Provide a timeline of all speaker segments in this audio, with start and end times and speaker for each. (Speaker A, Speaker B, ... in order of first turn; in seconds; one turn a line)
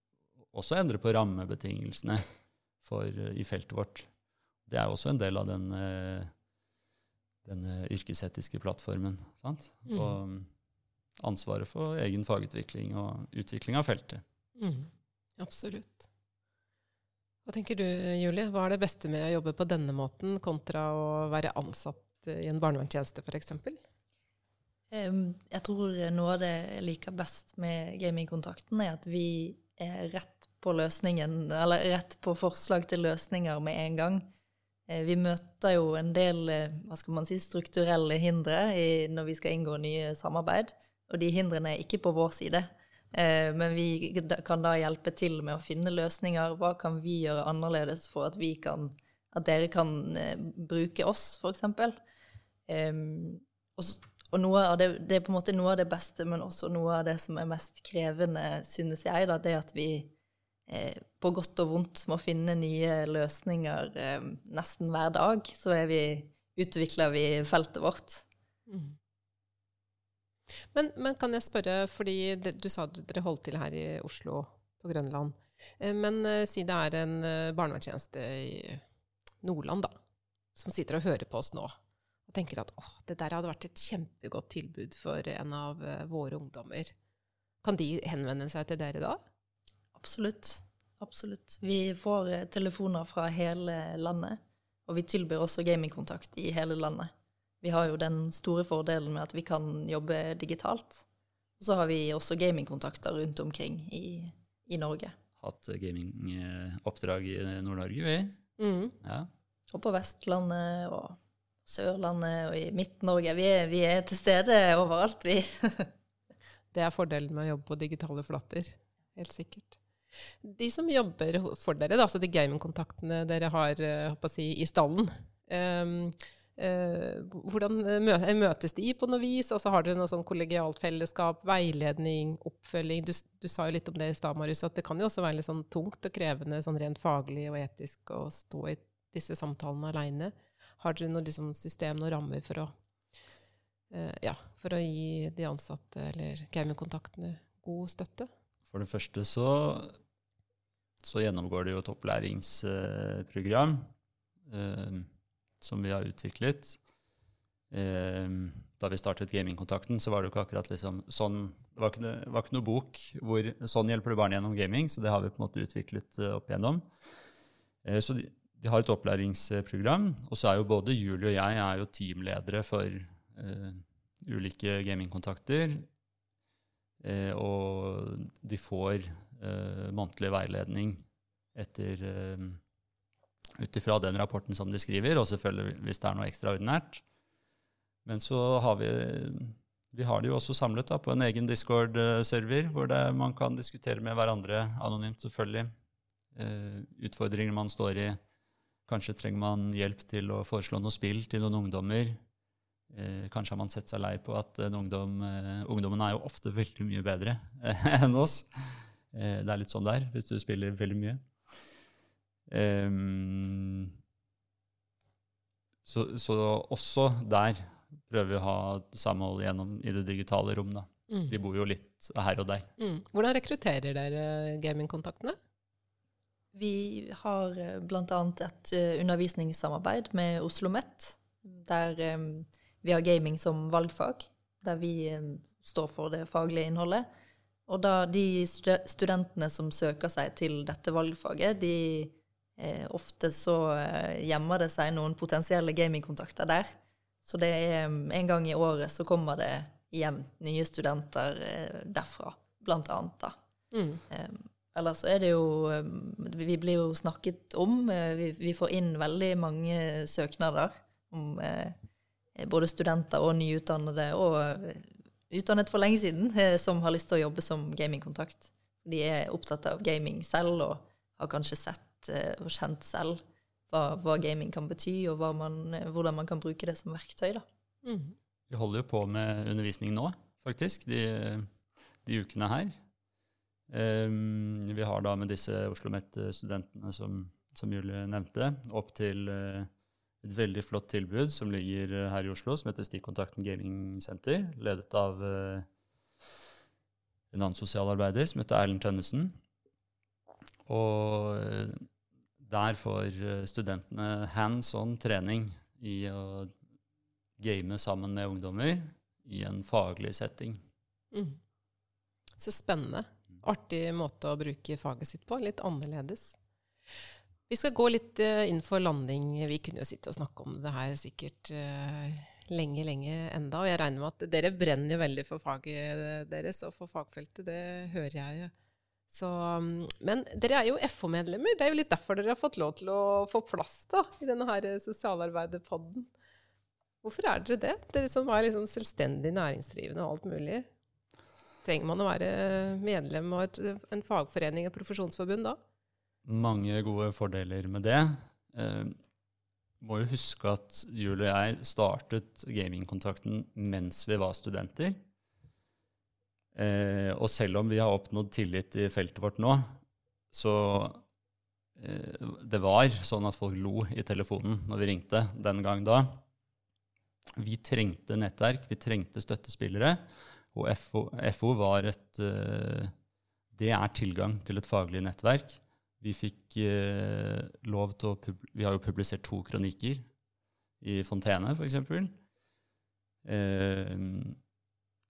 Speaker A: 0.5-2.2
Speaker A: 2.8-4.1
Speaker A: 4.7-6.3
Speaker A: 7.5-10.5
Speaker B: 9.9-10.2
Speaker A: 11.2-14.2
Speaker B: 14.6-16.1
Speaker B: 17.5-23.8
Speaker C: 24.9-34.3
Speaker C: 34.9-52.0
Speaker C: 52.7-60.1
Speaker C: 60.7-68.2
Speaker B: 68.7-69.0
Speaker B: 70.7-78.8
Speaker B: 79.4-80.0
Speaker B: 80.5-81.8
Speaker B: 82.3-86.9
Speaker B: 87.6-89.2
Speaker C: 90.0-97.1
Speaker C: 97.6-101.0
Speaker C: 101.6-105.2
Speaker A: 105.4-108.4
Speaker B: 108.6-109.0
Speaker A: 109.0-109.3
Speaker C: 109.7-115.9
Speaker B: 116.7-119.8
Speaker B: 120.4-142.7
Speaker B: 143.9-148.3
Speaker A: 148.7-150.0
Speaker A: 151.0-153.9
Speaker A: 154.5-155.1
Speaker A: 155.6-156.8
Speaker A: 157.7-166.9
Speaker A: 167.8-175.9
Speaker A: 177.0-181.0
Speaker A: 181.6-182.6
Speaker A: 183.6-187.0
Speaker A: 188.1-195.7
Speaker A: 196.3-198.2
Speaker A: 198.9-202.2
Speaker A: 202.9-211.3
Speaker A: 212.5-213.9
Speaker A: 215.8-222.7
Speaker B: 222.8-225.4
Speaker C: 226.5-237.1
Speaker C: 237.7-246.7
Speaker C: 247.2-253.3
Speaker B: 253.7-254.0
Speaker C: 254.1-261.8
Speaker C: 262.4-277.4
Speaker B: 277.9-278.2
Speaker A: 278.5-281.5
Speaker A: 282.1-282.8
Speaker A: 283.7-289.7
Speaker A: 290.2-295.7
Speaker A: 297.3-299.4
Speaker A: 300.7-301.8
Speaker A: 302.4-306.5
Speaker A: 307.4-310.6
Speaker B: 311.1-311.4
Speaker B: 312.4-316.4
Speaker B: 317.5-328.5
Speaker B: 329.1-336.1
Speaker B: 337.0-340.7
Speaker B: 341.6-345.6
Speaker A: 346.2-349.0
Speaker A: 349.8-355.0
Speaker A: 356.6-359.8
Speaker A: 360.3-361.0
Speaker A: 361.8-366.2
Speaker A: 367.4-370.0
Speaker A: 370.5-372.9
Speaker A: 373.5-380.1
Speaker A: 380.8-382.2
Speaker A: 383.2-384.4